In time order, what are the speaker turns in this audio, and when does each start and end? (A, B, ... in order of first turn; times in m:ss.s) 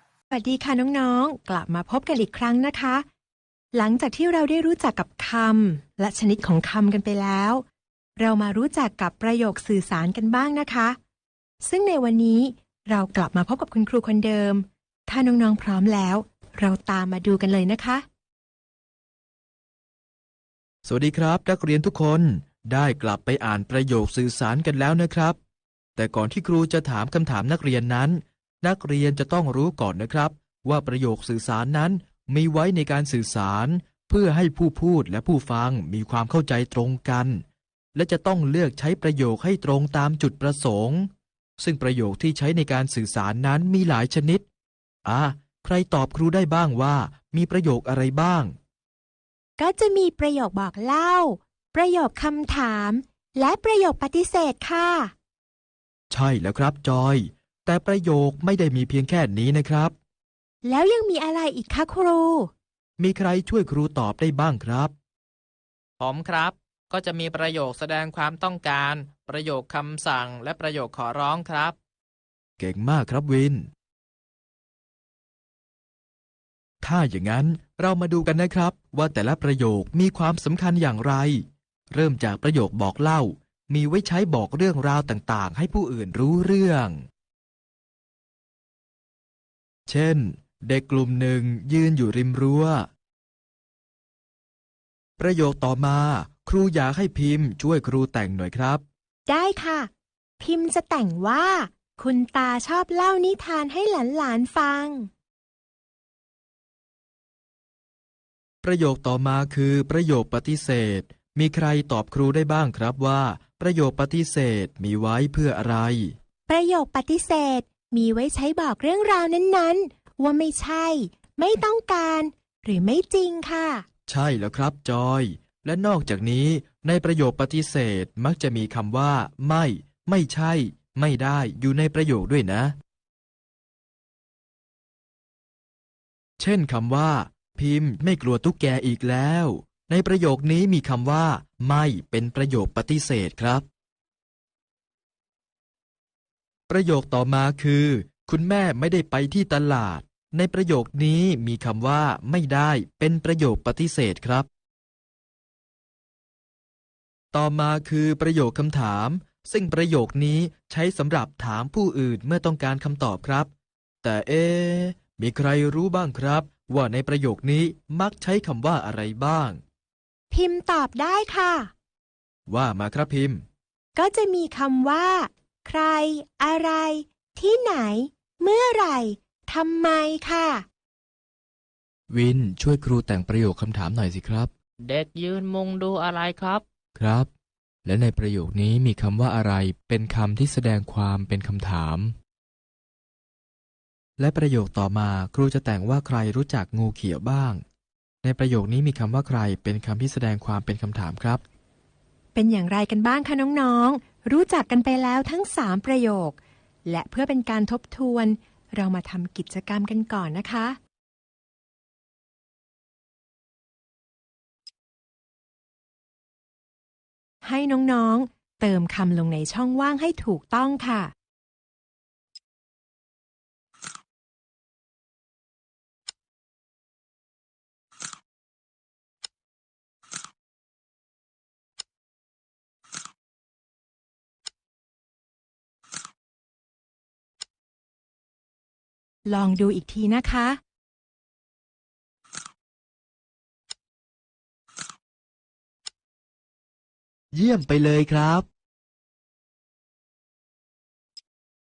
0:00.3-0:03.0 A
0:03.7-0:07.6 A
0:08.2-0:11.0 A
0:11.6-0:18.0 A
0:20.8-0:25.4 B
0:26.0-0:37.4 B
0:37.9-0:44.4 B
0:45.0-0:48.5 B
0:49.6-0:55.1 A
0:56.1-0:59.9 B
1:00.6-1:02.5 A
1:03.0-1:04.9 B
1:06.0-1:11.8 C
1:12.6-1:13.7 B
1:16.8-1:27.0 B
1:29.9-1:32.9 B
1:35.2-1:38.8 B
1:39.3-1:39.9 A
1:40.4-1:45.1 A
1:48.6-1:56.1 B
1:56.5-2:03.8 A
2:04.1-2:12.7 B
2:16.4-2:23.6 B
2:26.7-2:34.5 B
2:37.3-2:43.5 B
2:44.0-2:49.6 B
2:50.3-2:51.7 A
2:52.5-2:53.4 B
2:53.9-3:00.6 A
3:02.1-3:04.5 B
3:04.8-3:06.6 C
3:07.0-3:07.3 B
3:07.8-3:12.1 B
3:14.2-3:17.6 B
3:18.2-3:21.4 B
3:22.3-3:30.8 A
3:37.4-3:41.1 A
3:59.2-4:00.6 A
4:07.3-4:08.4 B